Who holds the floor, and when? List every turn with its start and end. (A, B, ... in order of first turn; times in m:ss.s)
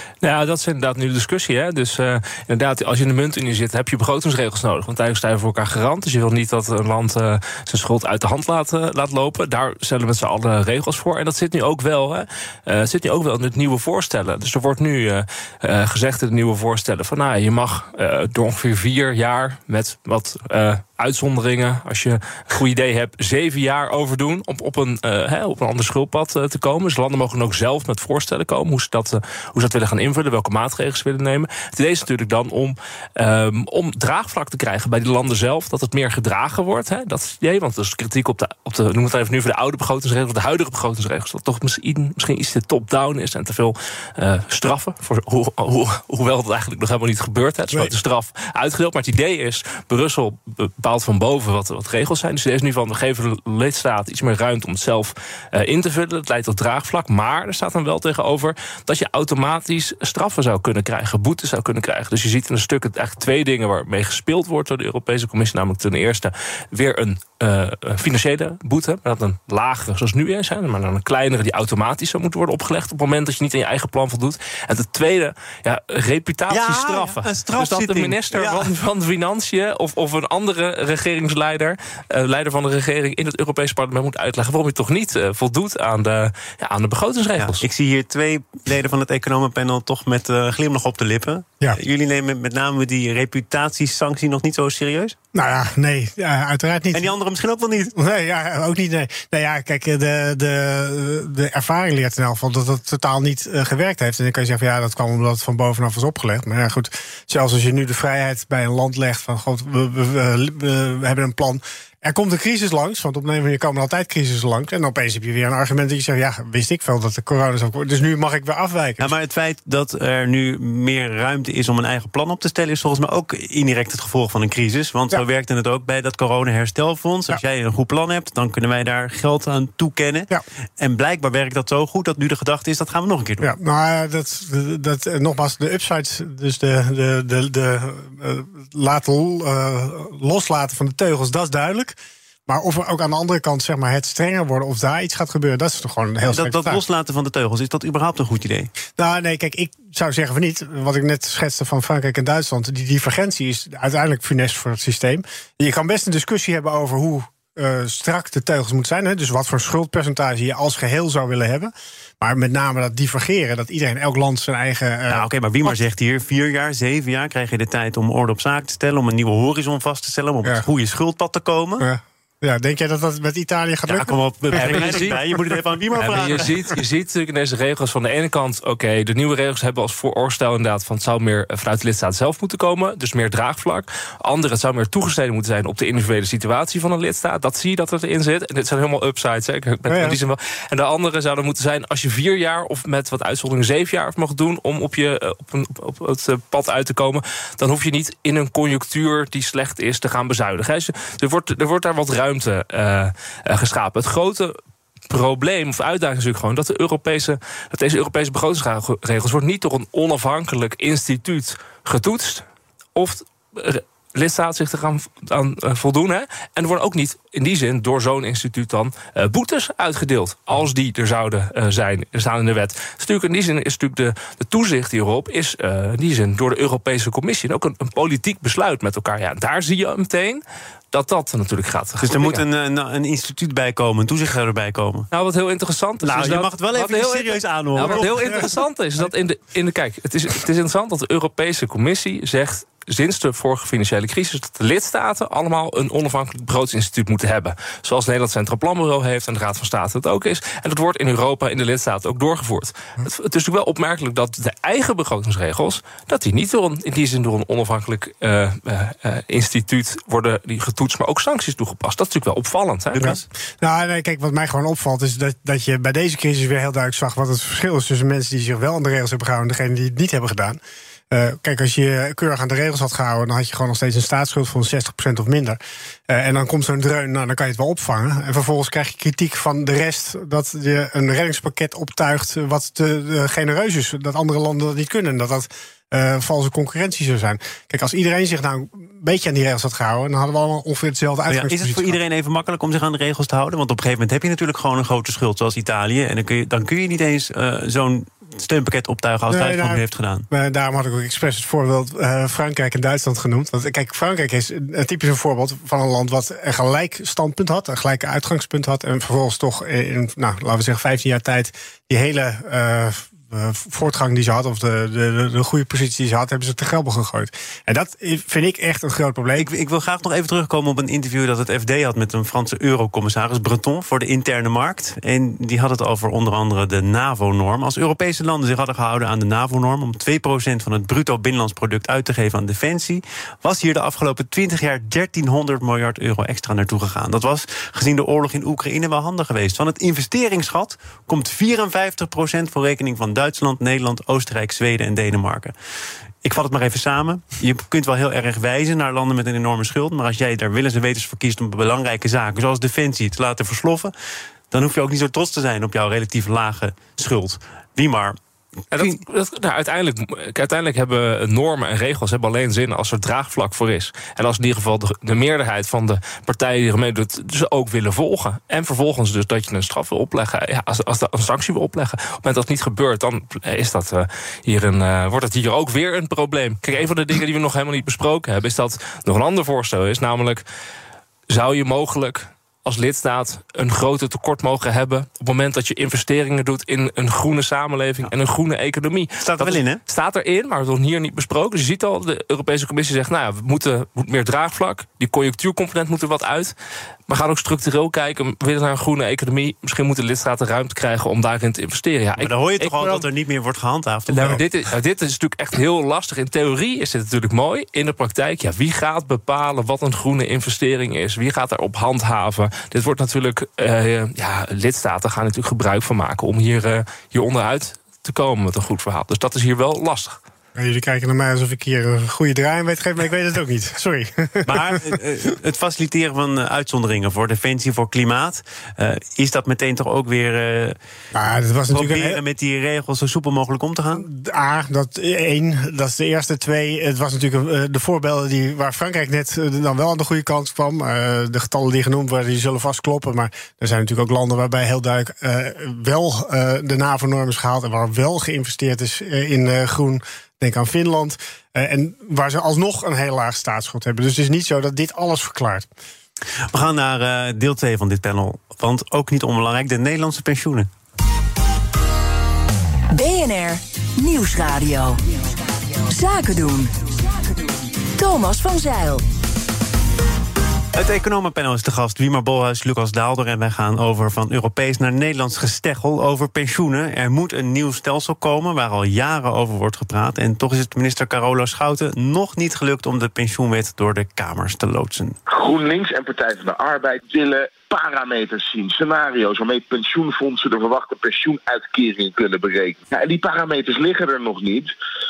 0:00.2-1:27.7 A
1:16.5-1:18.7 B
1:27.4-1:35.2 B
1:35.3-1:37.1 C
1:36.9-1:38.0 B
1:38.0-1:59.1 C
1:59.0-2:13.5 B
2:13.4-2:22.0 C
2:22.5-2:26.8 C
2:26.2-2:28.7 B
2:29.0-2:45.7 C
2:45.1-2:51.9 B
2:51.8-2:55.2 C
2:53.9-2:56.8 B
2:54.5-2:55.2 A
2:56.0-3:24.5 A
3:09.9-3:10.2 C
3:25.1-3:52.4 A
3:52.0-3:55.1 B
3:55.1-4:23.1 A
3:56.0-3:58.4 B
3:57.8-3:58.5 C
4:22.9-4:23.3 B
4:23.0-4:30.6 C
4:31.1-4:52.0 C
4:51.3-5:00.3 B
4:59.3-5:19.5 C
5:19.4-5:45.5 B
5:46.2-5:53.9 B
5:54.5-5:58.2 B
5:58.7-6:20.4 A
6:21.3-6:36.6 A
6:29.2-6:29.8 B
6:37.1-6:43.1 A
6:42.2-6:44.4 B
6:44.1-7:00.2 A
7:00.6-7:05.0 C
7:04.5-7:10.8 B
7:11.1-7:12.2 C
7:11.7-7:14.1 B
7:13.9-7:35.7 C
7:36.5-7:40.7 B
7:42.9-7:45.0 D
7:45.8-7:47.4 D
7:48.0-7:49.0 D
7:50.7-8:05.2 B
8:05.3-8:14.7 E